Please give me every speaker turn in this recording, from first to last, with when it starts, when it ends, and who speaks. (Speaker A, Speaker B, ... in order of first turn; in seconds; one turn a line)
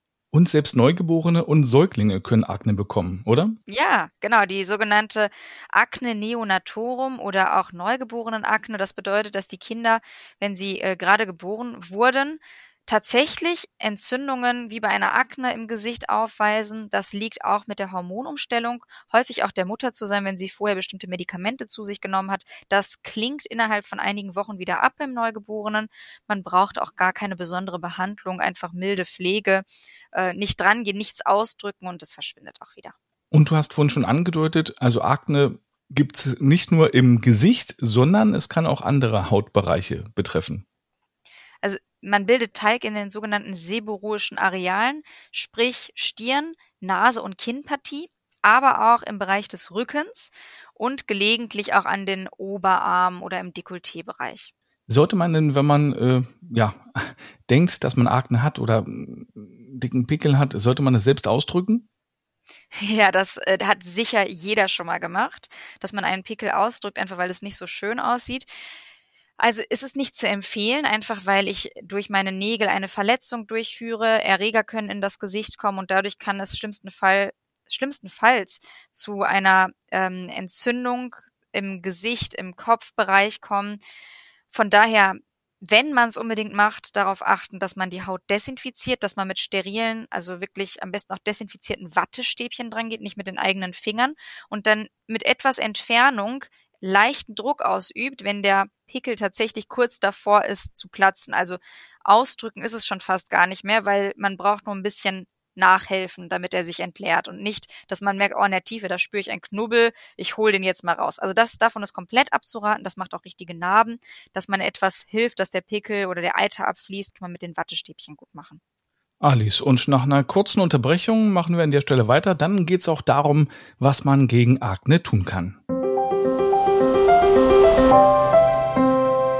Speaker A: 0.3-3.6
Speaker B: 3.7-33.0
Speaker A: 33.3-40.6
Speaker B: 41.6-54.5
Speaker A: 54.9-61.9
Speaker B: 62.7-68.5
Speaker B: 69.4-83.8
Speaker B: 84.5-118.6
Speaker A: 119.2-125.6